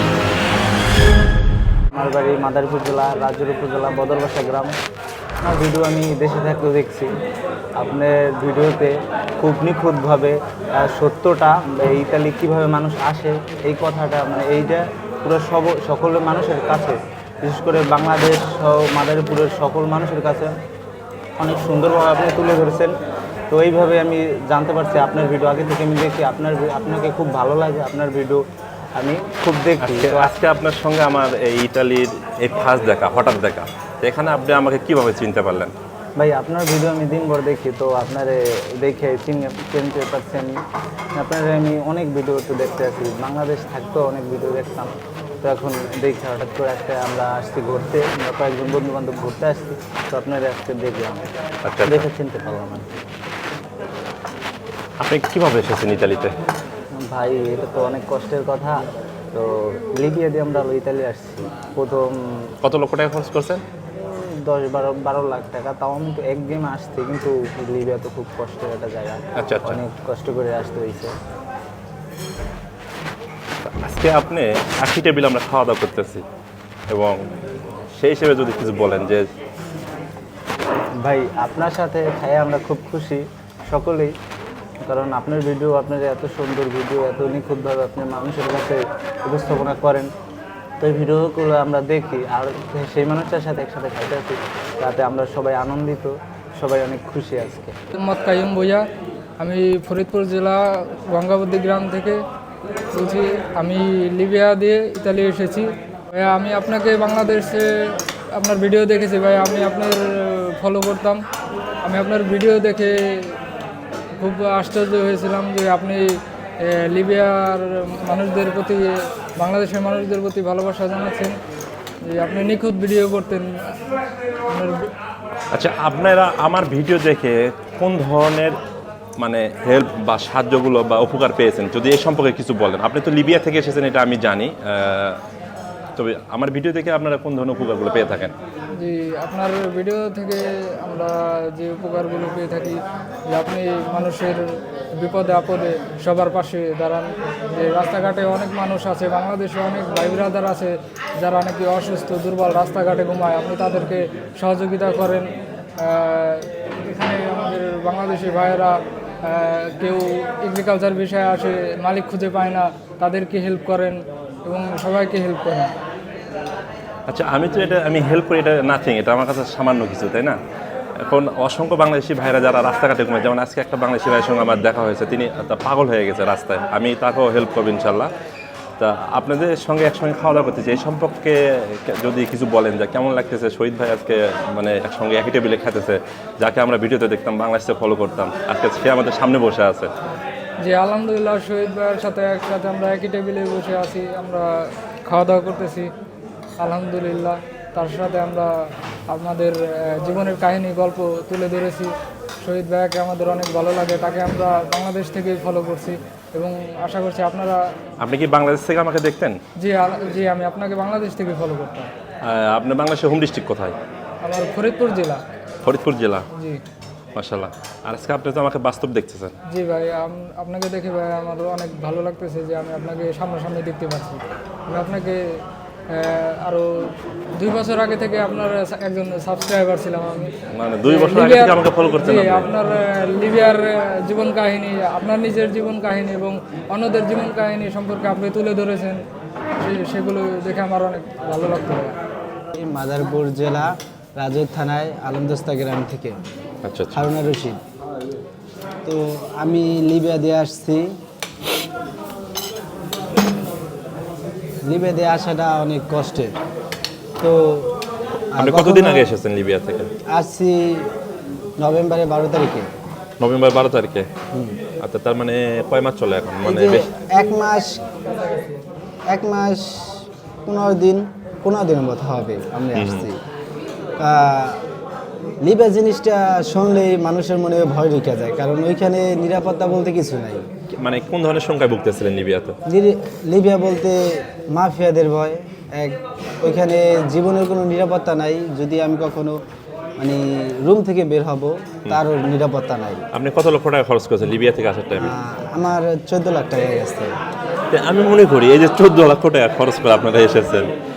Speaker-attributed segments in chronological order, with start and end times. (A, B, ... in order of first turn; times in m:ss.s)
0:01.9-0:04.8 A
0:05.4-0:07.1 A
0:07.8-0:20.5 A
0:21.4-0:22.9 A
0:23.5-0:28.4 A
0:29.0-0:30.3 A
0:29.8-0:35.7 B
0:36.2-0:40.5 A
0:41.2-0:51.3 A
0:51.6-0:52.1 B
0:51.8-0:52.9 A
0:55.0-0:56.3 B
0:57.0-0:58.8 A
0:59.3-1:02.5 A
1:02.6-1:03.6 B
1:04.0-1:11.1 A
1:09.4-1:09.8 B
1:13.6-1:16.2 B
1:16.9-1:17.1 B
1:17.9-1:19.3 B
1:21.0-1:24.1 A
1:24.8-1:30.1 A
1:30.8-1:37.7 A
1:37.9-1:38.8 C
1:39.4-1:42.2 C
1:42.9-1:51.2 C
1:51.8-1:53.3 C
1:54.2-2:01.3 C
2:02.0-2:03.5 C
2:04.5-2:04.9 C
2:05.5-2:08.6 B
2:09.2-2:15.2 B
2:16.0-2:18.3 B
2:18.8-2:22.8 C
2:23.3-2:35.3 C
2:35.8-2:45.7 C
2:47.1-2:50.4 B
2:51.0-2:58.1 B
2:58.8-3:09.9 B
3:10.6-3:14.5 C
3:15.0-3:15.9 C
3:16.6-3:18.5 C
3:19.1-3:27.6 C
3:28.0-3:29.4 B
3:29.6-3:31.9 C
3:32.2-3:33.7 B
3:34.2-3:35.2 C
3:35.6-3:36.2 B
3:36.3-3:36.6 C
3:37.1-3:39.3 B
3:39.5-3:45.4 C
3:45.9-3:46.7 C
3:47.4-3:50.3 C
3:50.5-3:52.5 B
3:50.8-3:59.0 C
3:59.6-4:02.0 C
4:02.5-4:06.2 D
4:06.6-4:07.1 B
4:06.9-4:07.6 D
4:08.8-4:10.9 D
4:14.6-4:16.4 D
4:17.2-4:17.7 D
4:18.3-4:19.9 B
4:18.3-4:19.1 D
4:20.1-4:20.8 D
4:21.6-4:22.7 D
4:23.2-4:24.1 B
4:24.8-4:26.9 B
4:26.4-4:27.8 D
4:29.1-4:33.2 D
4:32.8-4:33.1 B
4:34.0-4:34.6 D
4:35.4-4:40.4 D
4:40.7-4:42.5 B
4:42.7-4:49.4 D
4:50.0-4:53.0 D
4:53.1-4:55.2 B
4:55.0-4:57.1 D
4:57.7-5:00.6 B